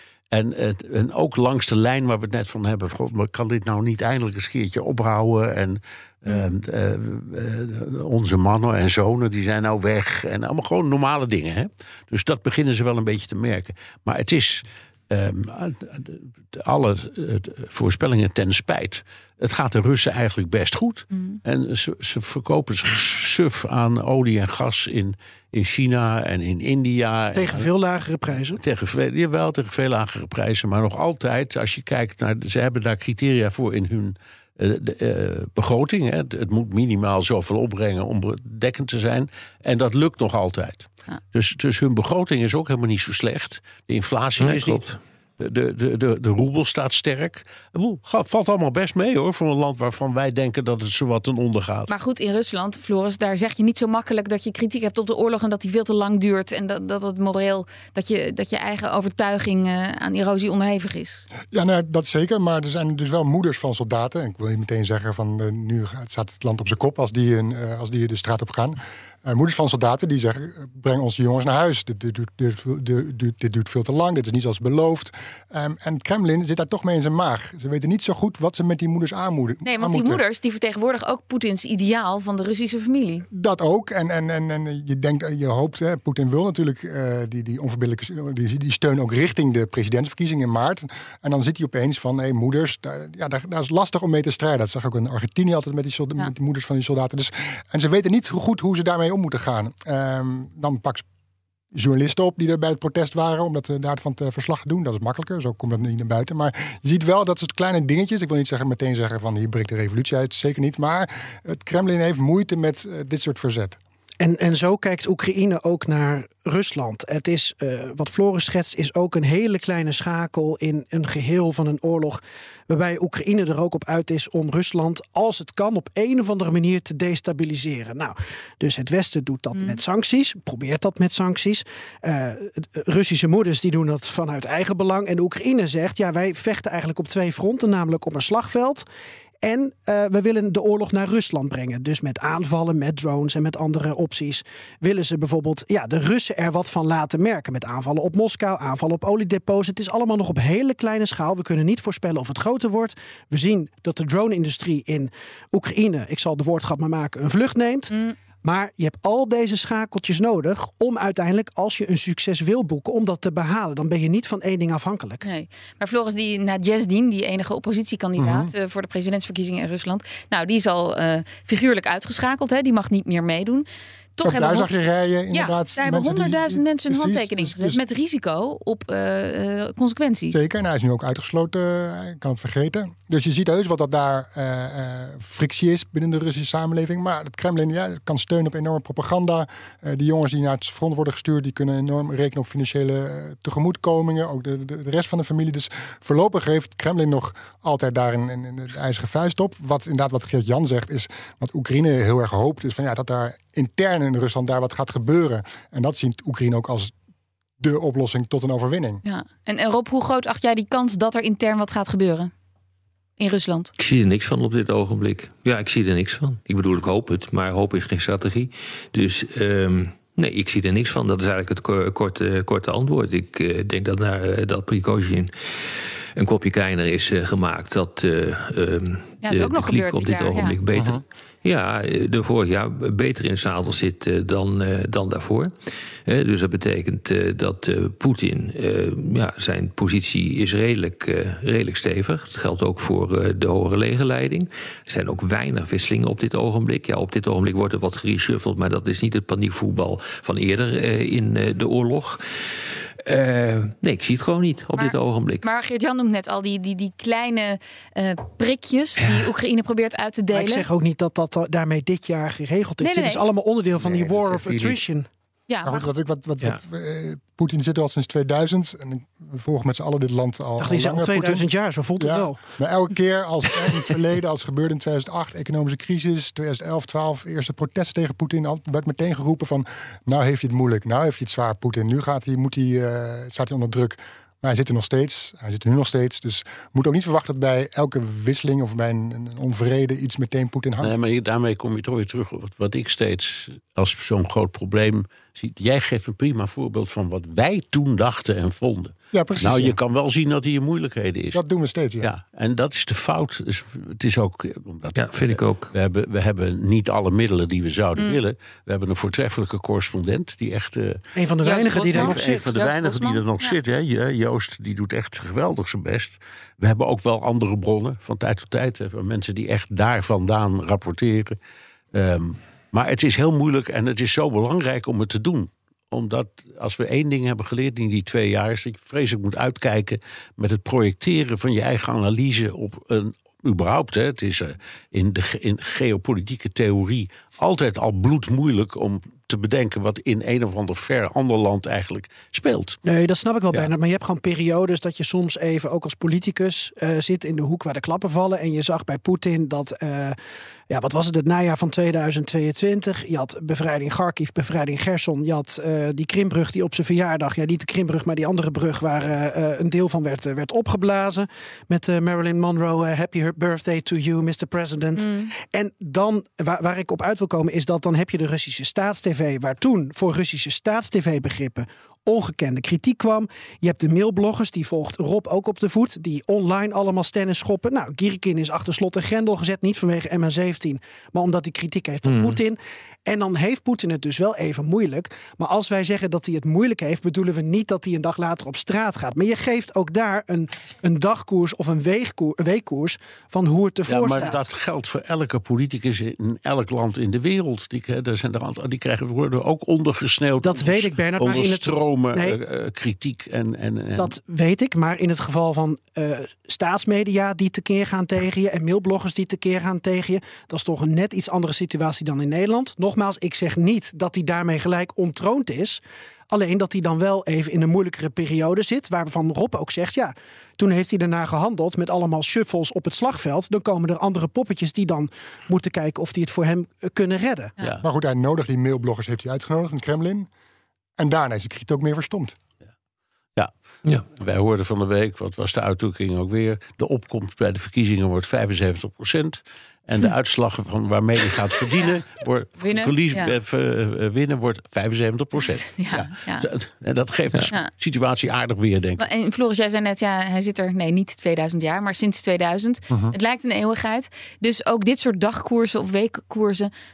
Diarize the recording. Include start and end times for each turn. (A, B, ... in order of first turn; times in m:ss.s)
0:00.3-0:27.7 A
0:27.4-0:28.6 B
0:28.6-0:44.8 A
0:44.4-0:45.0 C
0:45.4-0:51.9 A
0:51.9-1:01.3 D
1:01.5-1:20.2 E
1:19.6-1:23.3 D
1:23.3-1:41.0 E
1:41.7-1:53.8 E
1:54.2-2:18.8 B
2:09.5-2:09.8 D
2:19.4-2:45.2 B
2:37.9-2:38.2 D
2:45.2-2:53.7 D
2:48.2-2:48.5 E
2:54.2-2:54.7 D
2:54.2-2:57.8 E
2:55.3-3:00.4 D
3:00.3-3:26.9 E
3:27.6-3:29.0 E
3:29.0-3:32.3 D
3:33.2-3:33.7 D
3:33.8-3:45.3 C
3:46.2-3:55.5 C
3:49.2-3:50.6 D
3:50.7-3:51.0 E
3:56.1-4:12.2 C
4:13.0-4:15.4 C
4:14.8-4:20.6 D
4:19.0-4:19.3 C
4:20.3-4:25.1 B
4:22.8-4:23.2 D
4:23.8-4:24.8 C
4:25.5-4:25.9 D
4:25.6-4:31.5 E
4:30.6-4:32.5 B
4:32.0-4:51.0 E
4:50.8-5:01.4 A
4:59.1-4:59.8 E
5:01.3-5:02.1 E
5:02.0-5:11.0 A
5:05.0-5:05.7 C
5:08.0-5:08.2 D
5:11.2-5:12.5 B
5:11.4-5:13.6 D
5:11.9-5:21.4 A
5:21.9-5:42.8 A
5:42.8-5:50.2 B
5:50.7-6:34.5 B
6:05.0-6:05.3 D
6:22.0-6:22.4 C
6:33.9-6:44.2 A
6:40.4-6:42.4 B
6:44.0-7:07.5 B
7:07.8-7:10.3 E
7:11.0-7:12.4 E
7:14.0-7:29.0 A
7:22.6-7:23.3 D
7:25.6-7:26.5 D
7:29.0-7:36.7 D